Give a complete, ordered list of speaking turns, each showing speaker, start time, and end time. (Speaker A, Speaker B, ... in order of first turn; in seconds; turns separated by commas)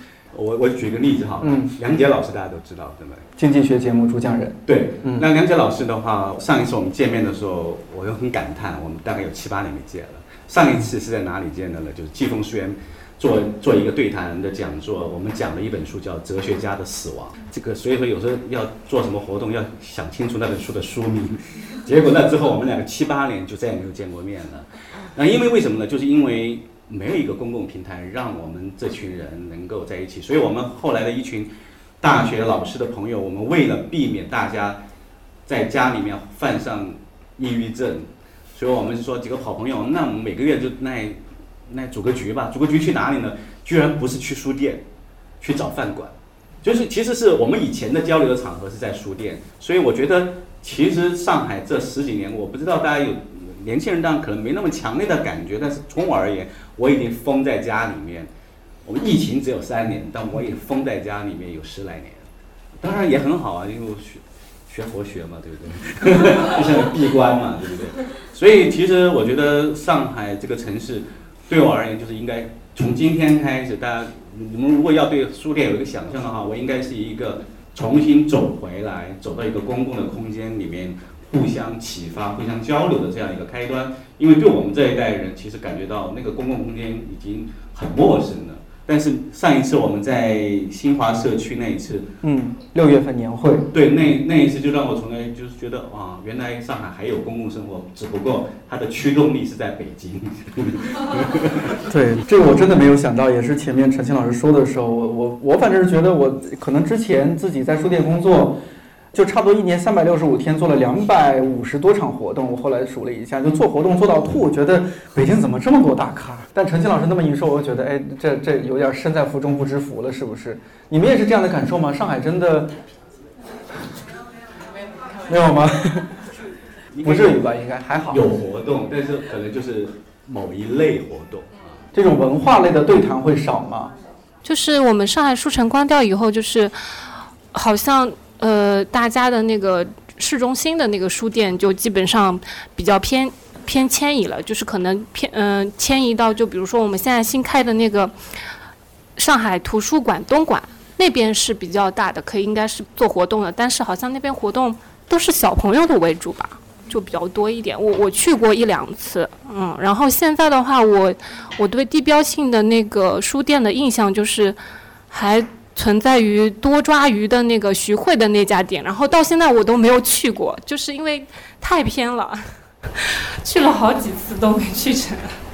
Speaker A: 0.3-3.3, Speaker B: 1.4-1.7, Speaker B: 3.4-5.3, Speaker A: 4.7-34.8, Speaker A: 35.5-44.8, Speaker A: 45.4-58.3, Speaker A: 58.9-62.3, Speaker A: 62.8-92.1, Speaker B: 92.2-93.7, Speaker A: 93.7-101.8, Speaker B: 101.9-108.6, Speaker B: 109.1-122.8, Speaker B: 125.3-126.2, Speaker A: 126.9-127.4, Speaker B: 127.0-128.2, Speaker A: 128.1-131.8, Speaker B: 131.9-133.9, Speaker C: 134.4-148.6, Speaker C: 149.2-175.4